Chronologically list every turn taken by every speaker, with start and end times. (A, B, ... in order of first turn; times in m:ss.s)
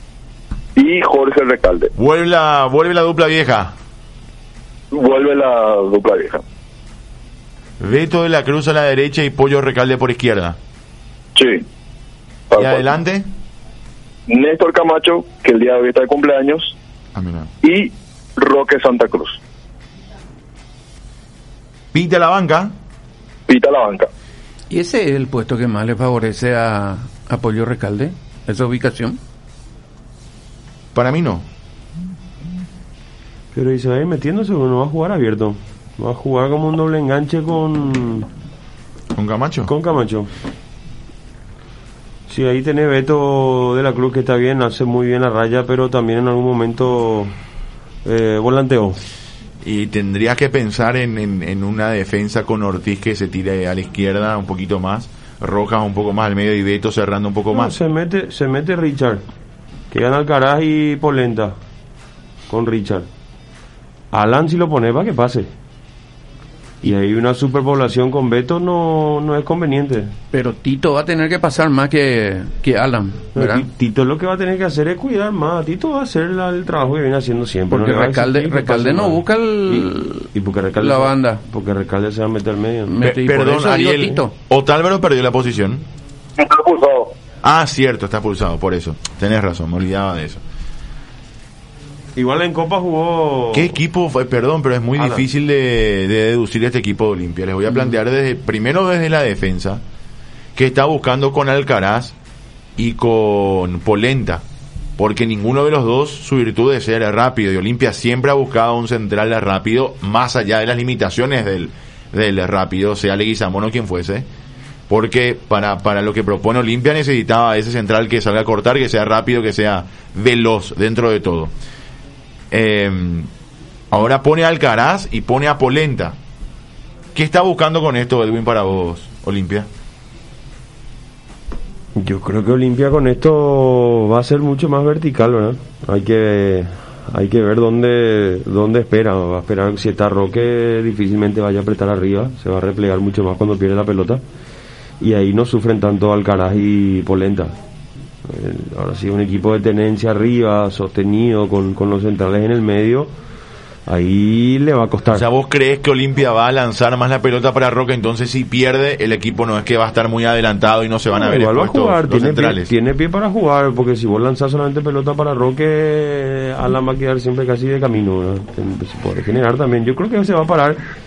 0:00.8-0:01.9 A
0:02.0-0:03.7 B
0:04.9-0:06.4 A
0:07.8-0:10.6 B
0:11.3-0:11.6 A
0:12.5-0:12.8 A
0:12.5-0:13.3 B
0:14.3-0:16.7 A
0:17.1-0:17.5 B
0:17.6-0:19.4 A
0:21.9-0:22.7 B
0:23.5-0:24.1 A
0:24.7-0:29.2 C
0:30.9-0:31.4 B
0:33.5-0:38.3 D
0:39.1-0:39.7 B
0:39.7-0:40.3 D
0:42.3-0:47.3 D
0:48.0-0:49.0 D
0:49.6-0:57.7 B
0:57.5-0:59.2 D
0:59.9-1:01.5 D
1:02.5-1:03.1 D
1:04.1-1:05.5 D
1:06.8-1:10.1 D
1:10.3-1:13.6 C
1:13.3-1:22.9 D
1:17.7-1:21.4 C
1:22.9-1:24.3 C
1:23.0-1:25.8 B
1:26.4-1:27.1 A
1:27.4-1:30.4 B
1:32.1-1:33.7 D
1:33.5-1:39.8 B
1:35.0-1:35.2 D
1:40.6-1:42.1 B
1:42.8-1:44.4 B
1:45.0-1:54.2 B
1:54.9-2:01.5 B
2:02.5-2:03.3 B
2:03.9-2:06.1 B
2:07.1-2:09.7 B
2:11.9-2:24.2 D
2:25.0-2:27.5 D
2:28.2-2:33.1 D
2:33.9-2:35.2 D
2:35.1-2:42.7 B
2:41.1-2:50.8 D